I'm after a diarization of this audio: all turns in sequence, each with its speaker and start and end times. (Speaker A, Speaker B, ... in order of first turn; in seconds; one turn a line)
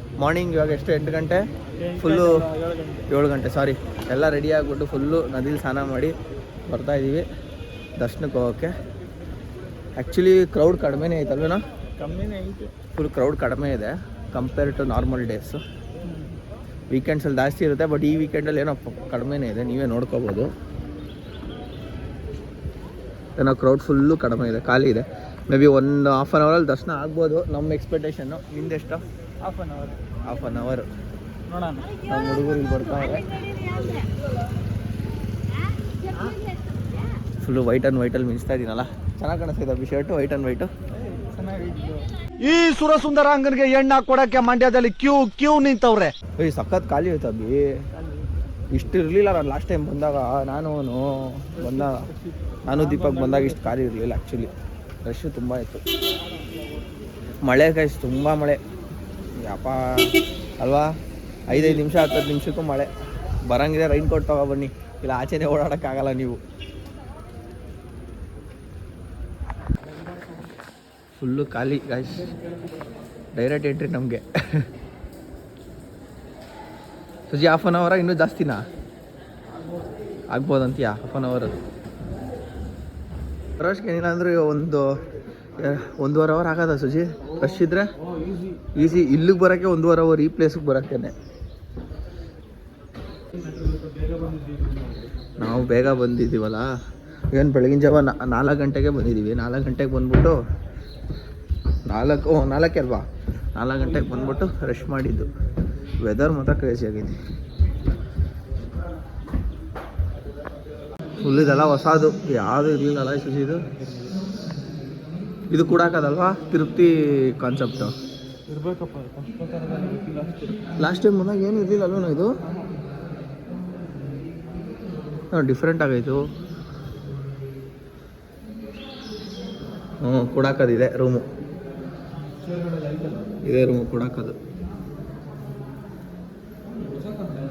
Speaker A: 0.2-2.4
Speaker B: 1.8-3.0
Speaker A: 3.1-6.1
Speaker A: 6.7-7.3
Speaker A: 8.0-8.7
Speaker A: 9.9-11.6
Speaker B: 12.0-12.7
Speaker A: 12.9-15.6
Speaker A: 16.9-20.5
Speaker A: 23.4-29.0
Speaker B: 29.4-29.7
Speaker A: 30.2-30.9
Speaker B: 31.5-31.8
Speaker A: 32.1-33.3
Speaker A: 37.4-40.7
Speaker B: 41.4-42.0
Speaker C: 42.4-46.1
Speaker A: 46.4-47.6
Speaker A: 48.7-52.1
Speaker A: 52.6-54.5
Speaker B: 52.7-53.5
Speaker A: 55.0-55.8
Speaker A: 57.4-58.6
Speaker A: 59.4-60.9
Speaker A: 61.5-62.9
Speaker A: 63.5-66.4
Speaker A: 71.2-72.3
Speaker A: 73.3-74.7
Speaker A: 77.3-78.6
Speaker A: 80.3-81.5
Speaker A: 83.6-84.8
Speaker A: 85.6-87.8
Speaker A: 88.7-91.1
Speaker A: 95.4-96.7
Speaker A: 97.3-100.4
Speaker A: 101.8-105.3
Speaker A: 106.0-107.2
Speaker A: 111.2-113.6
Speaker A: 115.5-117.9
Speaker B: 118.5-120.6
Speaker A: 120.8-122.4
Speaker A: 125.3-126.2
Speaker A: 130.0-131.2
Speaker A: 133.4-134.3